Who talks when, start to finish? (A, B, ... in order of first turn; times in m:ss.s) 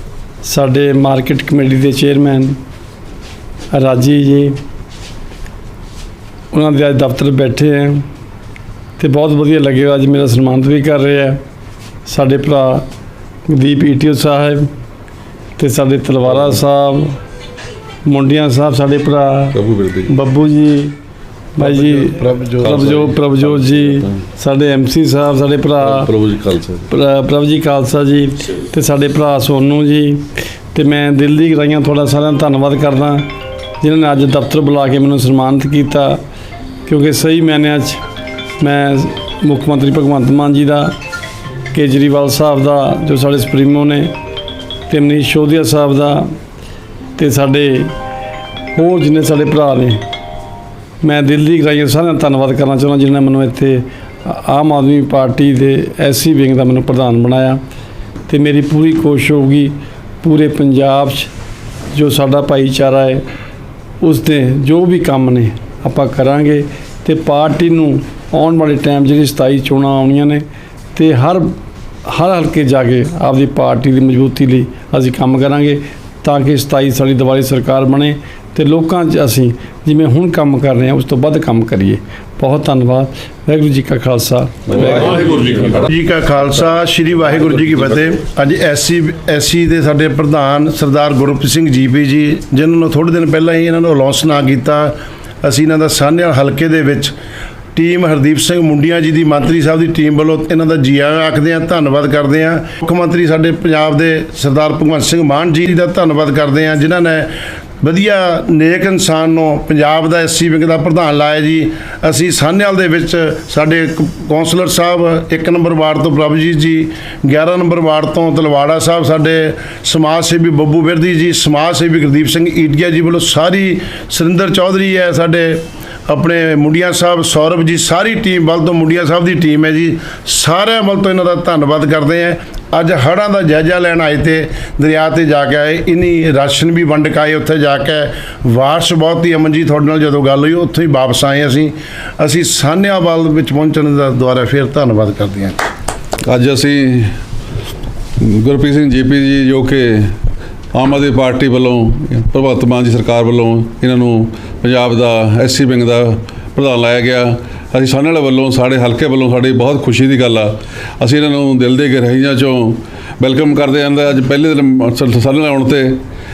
0:00.4-0:02.6 A
0:03.7-0:04.6 A
0:06.5-0:08.0 A
0:09.0-0:11.4 A
0:12.0-0:12.8 A
0:13.5-0:14.7 A
0:15.6-0:17.2 A
0:18.0-0:21.0 A
0:19.5-0:20.1 B
0:21.6-0:26.1 A
0:21.6-0:23.0 C
0:22.7-0:23.9 B
0:25.8-0:26.8 B
0:26.9-0:33.3 A
0:33.8-0:36.2 A
0:36.8-0:38.0 A
0:38.6-0:40.9 A
0:41.7-0:44.1 A
0:44.9-0:46.3 A
0:47.2-0:47.9 A
0:48.7-0:50.0 A
0:51.0-0:57.6 A
0:58.3-1:01.3 A
1:01.9-1:03.2 A
1:04.0-1:10.4 A
1:10.9-1:11.5 A
1:12.0-1:25.4 A
1:25.6-1:37.1 C
1:37.7-1:47.3 C
1:47.8-2:25.6 C
2:26.2-2:27.1 B
2:28.2-2:30.1 B
2:30.7-2:46.0 B